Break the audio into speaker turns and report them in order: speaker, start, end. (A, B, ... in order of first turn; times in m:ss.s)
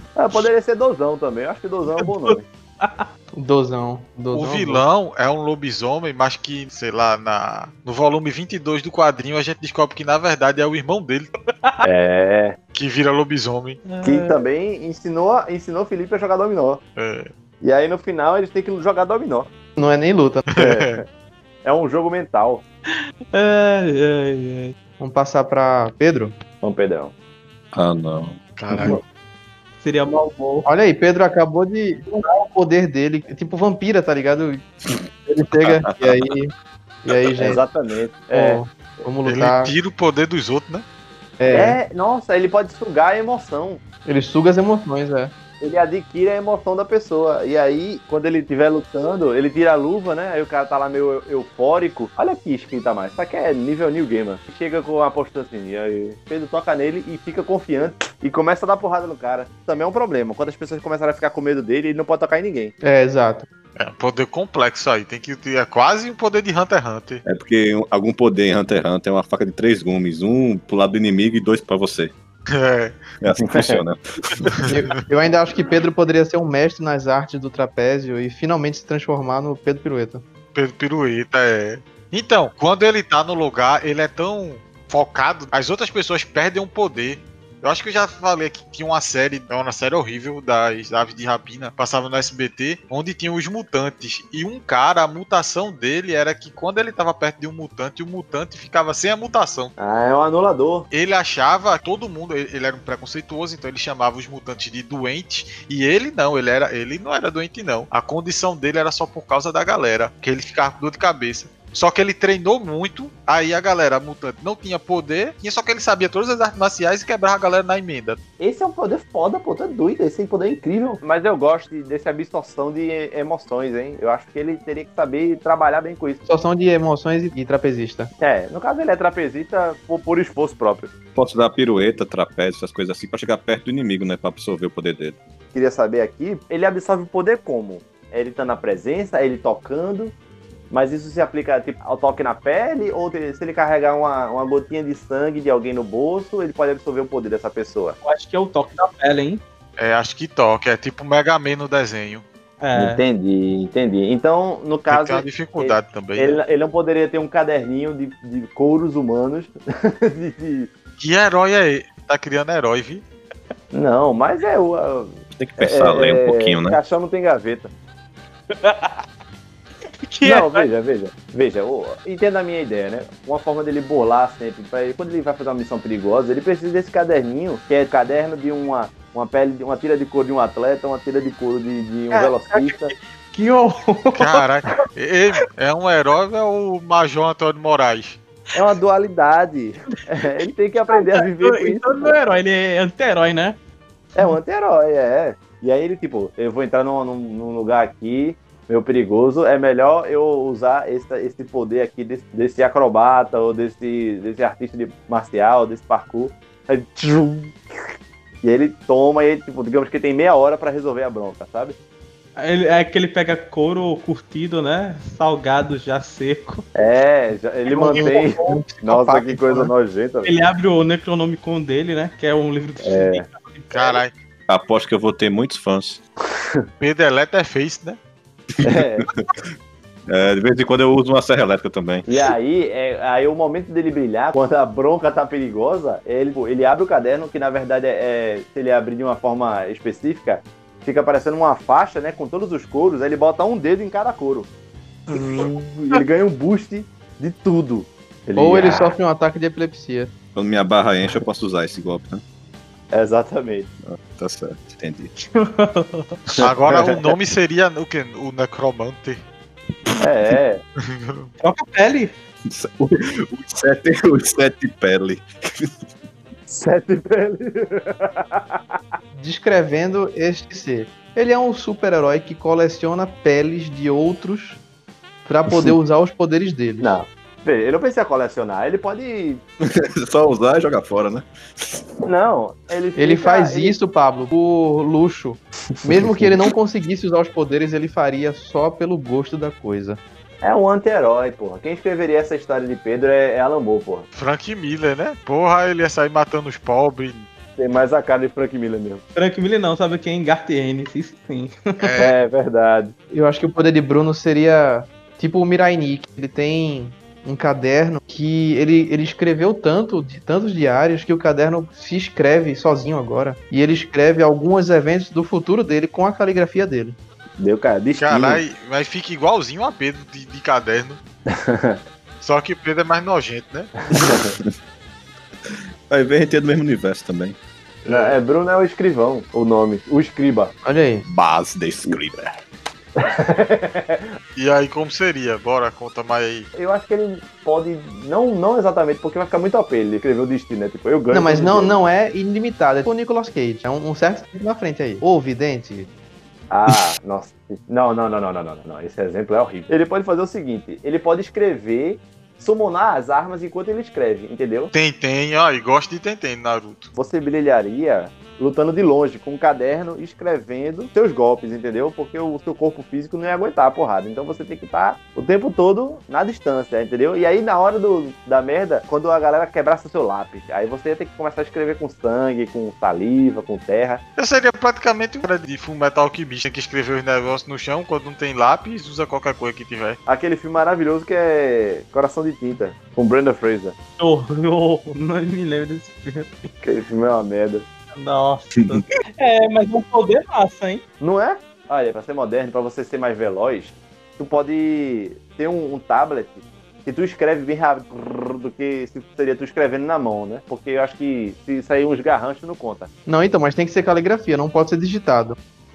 0:00.2-0:02.5 A
0:02.0-0:03.1 B
0:03.4-0:04.8 C
0:04.3-0:11.3 D
0:11.8-0:12.6 A
0:12.7-0:13.8 D
0:13.9-0:14.4 B
0:14.0-0:16.8 A
0:17.0-0:17.3 D
0:17.6-0:19.5 A
0:19.8-0:20.5 C
0:20.6-0:21.0 D
0:20.6-0:21.0 A
0:21.6-0:22.6 A
0:23.3-0:24.8 B
0:25.0-0:26.4 C
0:26.6-0:27.1 A
0:27.7-0:29.0 E
0:28.6-0:29.0 D
0:29.8-0:30.7 B
0:30.6-0:34.6 C
0:35.3-0:36.5 C
0:35.6-0:36.2 E
0:37.0-0:37.6 C
0:37.4-0:38.6 A
0:38.3-0:39.7 C
0:39.3-0:40.8 D
0:41.4-0:41.8 C
0:41.5-0:43.8 A
0:44.1-0:45.3 C
0:45.6-1:02.7 A
1:02.8-1:03.5 C
1:03.8-1:07.2 D
1:07.2-1:12.1 E
1:12.5-1:13.0 D
1:13.2-1:14.6 E
1:13.4-1:13.8 A
1:14.7-1:20.2 C
1:20.6-1:39.7 D
1:39.8-1:40.9 A
1:40.9-1:58.2 D
1:58.4-2:06.2 A
2:06.3-2:08.1 C
2:08.2-2:10.9 A
2:11.2-2:15.2 E
2:15.5-2:20.1 A
2:20.7-2:28.0 A
2:28.0-2:29.4 B
2:29.8-2:32.2 D
2:32.6-2:33.0 B
2:32.8-2:40.7 A
2:34.9-2:36.4 D
2:41.0-2:43.0 D
2:43.7-2:47.7 A
2:45.4-2:46.8 E
2:48.5-2:49.0 B
2:50.1-2:50.7 B
2:50.2-3:02.9 A
3:02.1-3:04.4 B
3:04.2-3:08.2 D
3:08.5-3:12.2 A
3:10.9-3:13.6 B
3:14.2-3:27.6 A
3:28.4-3:31.8 A
3:32.4-3:36.7 B
3:36.8-3:40.3 A
3:37.7-3:39.7 C
3:37.8-3:38.3 B
3:40.2-3:44.0 B
3:42.8-3:43.3 A
3:43.7-3:44.1 D
3:44.5-3:46.0 E
3:46.8-3:48.0 D
3:48.6-3:49.3 E
3:48.6-3:49.1 A
3:50.1-3:52.1 E
3:52.1-4:04.5 A
4:05.1-4:09.0 A
4:05.1-4:06.0 B
4:08.4-4:10.1 C
4:10.4-4:12.2 E
4:12.9-4:13.7 A
4:13.8-4:15.1 E
4:15.2-4:16.2 B
4:16.4-4:19.2 D
4:16.7-4:17.0 A
4:20.0-4:20.6 A
4:20.8-4:21.3 D
4:21.4-4:22.1 B
4:22.5-4:25.9 E
4:26.5-4:28.8 A
4:29.1-4:34.6 C
4:35.3-4:37.0 C
4:36.8-4:39.4 A
4:39.6-4:41.8 E
4:42.0-4:43.8 A
4:43.0-4:50.0 C
4:50.4-4:54.1 A
4:54.1-4:57.3 D
4:57.6-4:59.0 A
4:59.2-5:01.6 B
5:01.8-5:02.1 D
5:02.0-5:03.0 A
5:03.1-5:17.0 C
5:17.4-5:18.4 A
5:18.0-5:21.0 D
5:21.3-5:21.8 A
5:22.2-5:23.7 D
5:23.9-5:24.3 A
5:24.0-5:24.5 E
5:25.9-5:27.4 E
5:27.8-5:28.2 D
5:27.9-5:30.5 A
5:30.6-5:31.1 C
5:31.1-5:32.4 E
5:33.0-5:34.1 A
5:34.4-5:36.5 D
5:36.6-5:41.8 A
5:41.1-5:45.9 C
5:46.5-5:54.7 A
5:54.7-5:56.9 D
5:56.9-6:14.0 A
6:14.2-6:20.0 D
6:20.1-6:23.8 A
6:24.0-6:26.5 B
6:26.6-6:27.7 A
6:27.9-6:30.8 B
6:28.6-6:28.8 E
6:31.0-6:42.9 A
6:43.1-6:45.4 C